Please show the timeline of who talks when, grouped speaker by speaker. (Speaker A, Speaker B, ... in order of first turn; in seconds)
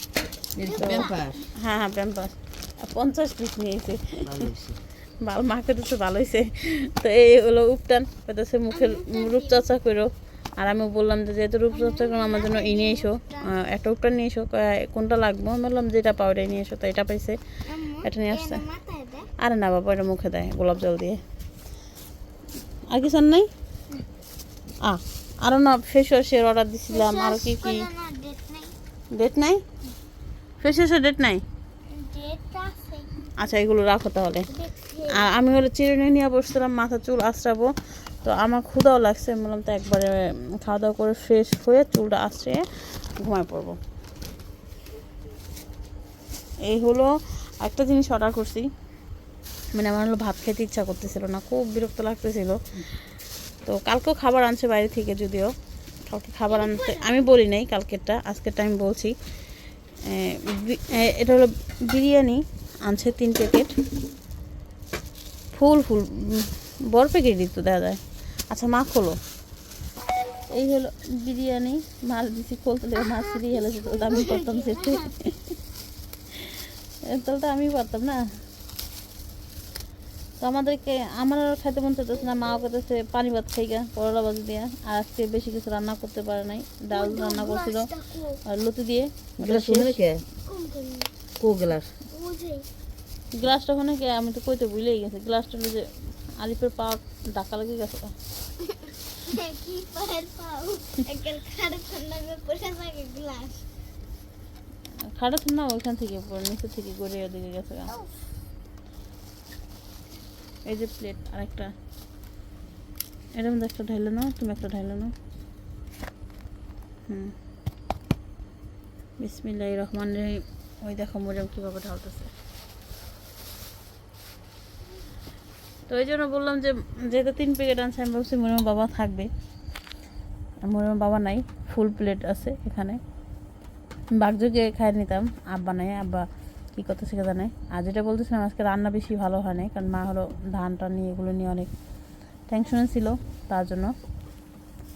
Speaker A: 0.6-1.4, 4.2-4.8, 89.4-90.2, 91.4-91.9
Speaker B: 0.6-1.3, 8.7-9.7, 11.7-13.5, 17.7-19.3, 26.9-28.7, 31.9-33.3, 34.5-35.3, 56.5-57.3, 74.0-75.1, 86.9-88.4, 90.5-91.1, 92.1-92.7, 98.6-103.7
Speaker C: 0.8-4.2, 5.2-17.4, 18.0-18.6, 19.4-21.2, 22.9-23.5, 24.8-27.9, 29.2-29.6, 30.6-31.4, 33.4-34.5, 35.1-37.7, 38.2-42.6, 43.2-43.8, 46.7-48.7, 49.7-52.6, 53.6-55.5, 56.1-59.1, 60.0-63.7, 65.5-69.2, 70.5-75.5, 76.3-78.2, 80.4-87.9, 88.5-90.0, 93.3-95.9, 96.4-98.1, 105.1-108.0, 110.7-111.7, 113.4-115.1, 117.1-117.3, 119.2-122.3, 125.9-129.3, 130.7-133.0, 134.2-141.7, 142.5-143.9